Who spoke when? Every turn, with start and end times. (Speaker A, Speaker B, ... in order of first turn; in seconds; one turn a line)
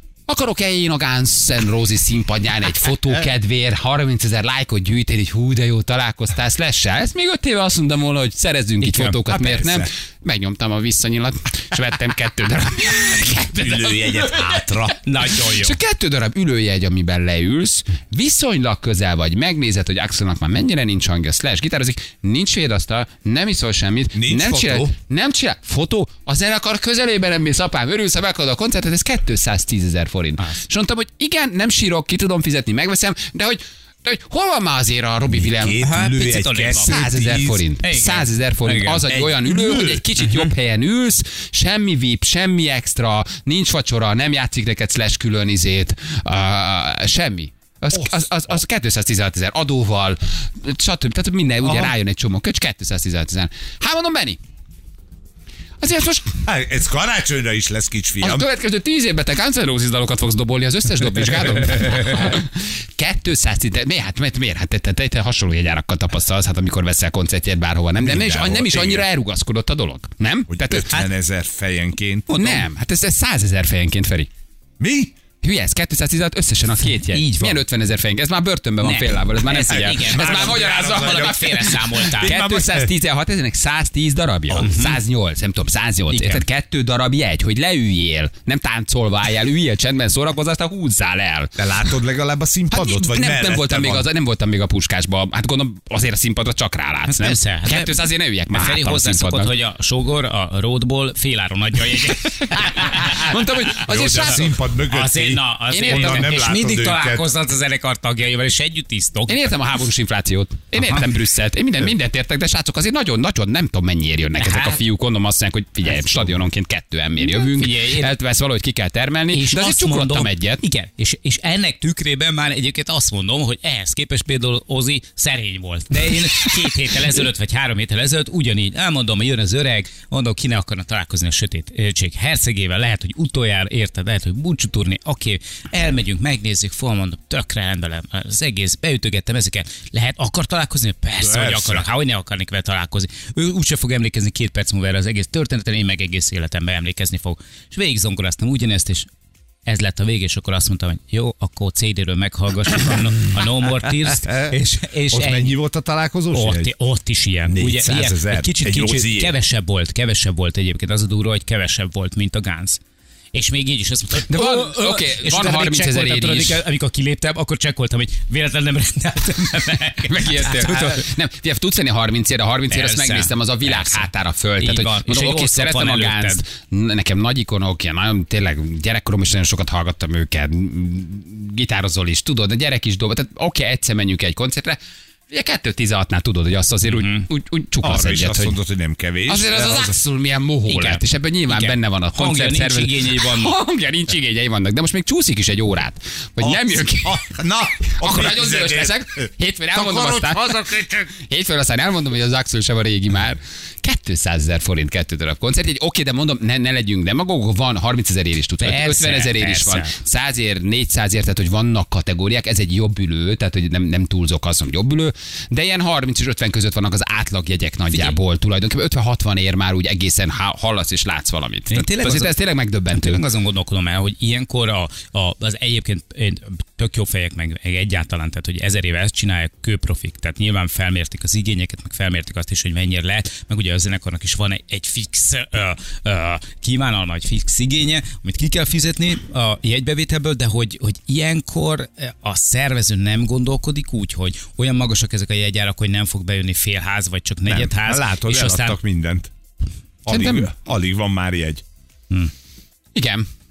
Speaker A: 0.3-14.8
Speaker B: 8.8-9.2
Speaker C: 9.3-9.9
Speaker C: 13.6-15.0
Speaker B: 15.0-15.8
Speaker A: 15.5-35.8
Speaker C: 24.1-24.9
Speaker C: 35.3-37.6
Speaker B: 35.8-37.0
Speaker A: 36.8-54.4
Speaker B: 37.8-40.5
Speaker C: 39.1-40.0
Speaker C: 47.9-48.6
Speaker C: 51.6-51.9
Speaker A: 55.8-56.4
Speaker C: 56.4-58.5
Speaker A: 58.2-70.9
Speaker C: 68.0-69.0
Speaker C: 70.5-72.7
Speaker A: 72.3-74.3
Speaker C: 74.8-75.1
Speaker A: 75.4-91.9
Speaker B: 76.9-77.6
Speaker B: 78.8-82.3
Speaker C: 79.7-81.4
Speaker C: 82.1-82.9
Speaker C: 84.5-84.8
Speaker B: 84.6-85.0
Speaker B: 86.1-86.4
Speaker C: 91.6-94.1
Speaker A: 92.7-99.5
Speaker B: 97.1-103.3
Speaker A: 102.8-104.6
Speaker C: 103.8-107.3
Speaker B: 104.3-109.5
Speaker A: 105.7-106.4
Speaker A: 109.3-120.6
Speaker B: 110.7-111.0
Speaker B: 114.4-114.8
Speaker B: 117.2-118.1
Speaker B: 119.3-149.1
Speaker C: 141.2-141.8
Speaker B: 149.7-155.6
Speaker C: 155.1-156.7
Speaker B: 156.3-162.8
Speaker C: 157.5-159.3
Speaker B: 163.3-171.1
Speaker A: 164.3-166.6
Speaker A: 170.1-184.8
Speaker B: 172.7-176.4
Speaker A: 185.3-188.6
Speaker B: 186.8-187.3
Speaker C: 187.8-190.0
Speaker A: 189.2-197.2
Speaker B: 190.7-193.5
Speaker C: 196.4-201.1
Speaker A: 198.0-223.2
Speaker B: 208.6-209.9
Speaker B: 217.9-218.2
Speaker B: 221.7-248.8
Speaker C: 247.4-249.3
Speaker C: 250.0-251.6
Speaker A: 250.1-250.5
Speaker A: 252.9-253.2